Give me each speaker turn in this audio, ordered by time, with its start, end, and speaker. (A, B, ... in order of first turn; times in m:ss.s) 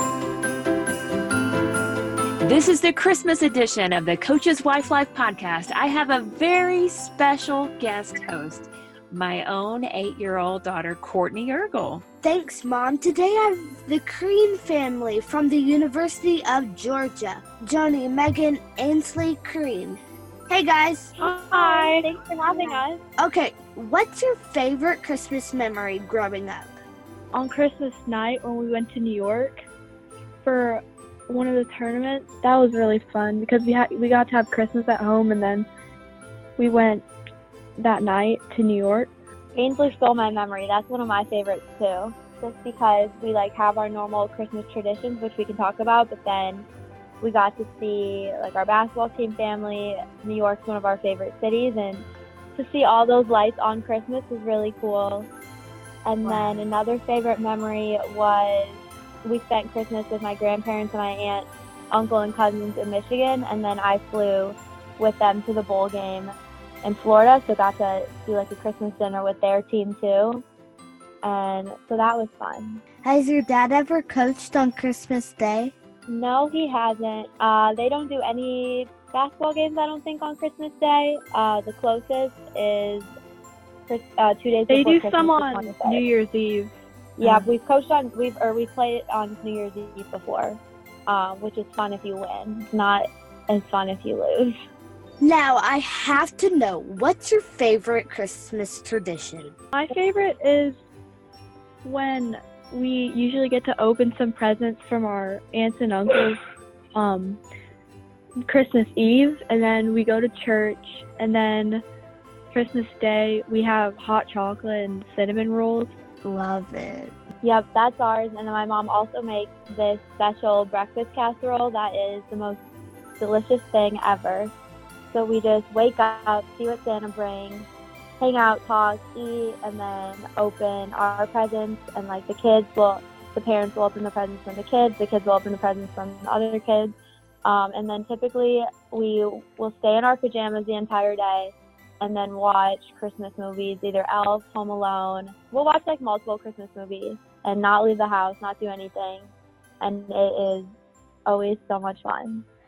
0:02.4-0:12.0 A
0:12.2-0:21.1 B
0:21.2-0:23.0 C
0:21.2-0:22.8 D
0:23.2-0:26.7 B
0:27.3-0:29.6 D
0:30.4-0:35.7 D
0:36.6-0:37.0 D
0:37.8-0:39.1 D
0:39.5-0:46.7 C
0:47.2-0:55.3 C
0:56.0-1:06.3 C
0:56.2-0:56.6 B
1:06.8-1:10.4 C
1:11.2-1:12.8 C
1:13.0-1:15.7 B
1:16.1-1:23.1 C
1:23.9-1:26.0 C
1:24.7-1:26.7 D
1:27.2-1:34.5 C
1:27.2-1:27.5 B
1:35.2-1:39.5 B
1:39.7-1:40.8 D
1:41.8-1:46.4 D
1:46.9-1:47.4 D
1:48.5-1:51.8 D
1:52.5-1:55.9 D
1:56.2-1:57.2 B
1:57.4-2:02.6 C
2:03.2-2:04.5 C
2:05.1-2:07.7 C
2:08.2-2:29.3 C
2:29.8-2:30.7 C
2:31.2-2:32.4 C